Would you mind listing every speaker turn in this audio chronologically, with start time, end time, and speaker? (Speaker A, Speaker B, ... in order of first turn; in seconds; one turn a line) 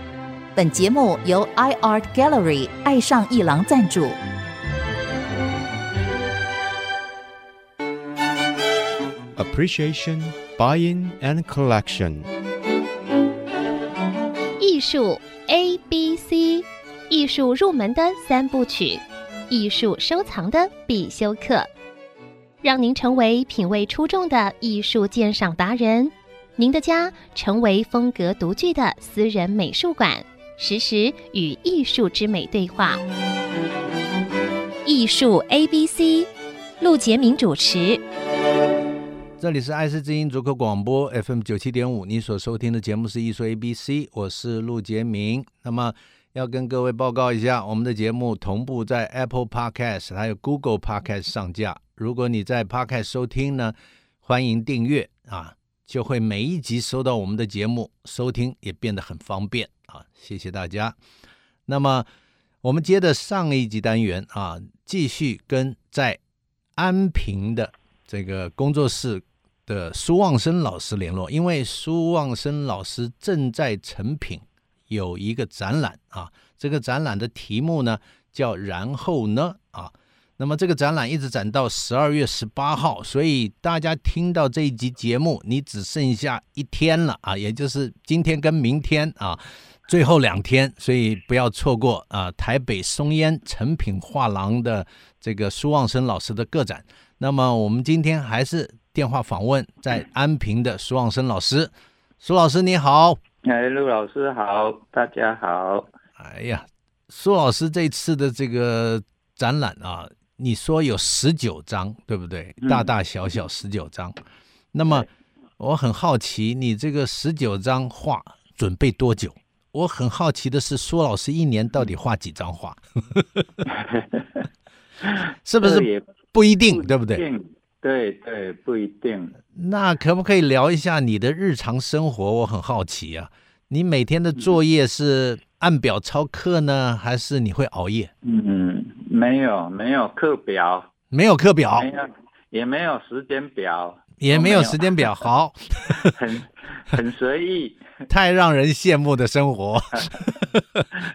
Speaker A: 0.5-4.2
Speaker B: 9.4-12.3
Speaker C: 14.6-21.7
Speaker C: 22.6-33.0
Speaker C: 34.8-36.3
Speaker C: 36.8-38.0
Speaker D: 39.4-61.0
Speaker D: 61.7-62.1
Speaker D: 62.6-66.2
Speaker D: 66.8-103.2
Speaker E: 103.4-105.9
Speaker D: 106.2-114.2
Speaker E: 112.6-112.9
Speaker D: 114.7-115.1
Speaker D: 115.6-123.4
Speaker E: 123.7-124.4
Speaker D: 125.4-127.2
Speaker E: 125.6-126.0
Speaker E: 126.7-129.3
Speaker D: 129.5-138.1
Speaker E: 138.2-140.9
Speaker D: 141.1-141.9
Speaker E: 141.7-145.2
Speaker D: 144.2-146.2
Speaker E: 145.9-147.8
Speaker D: 148.1-150.9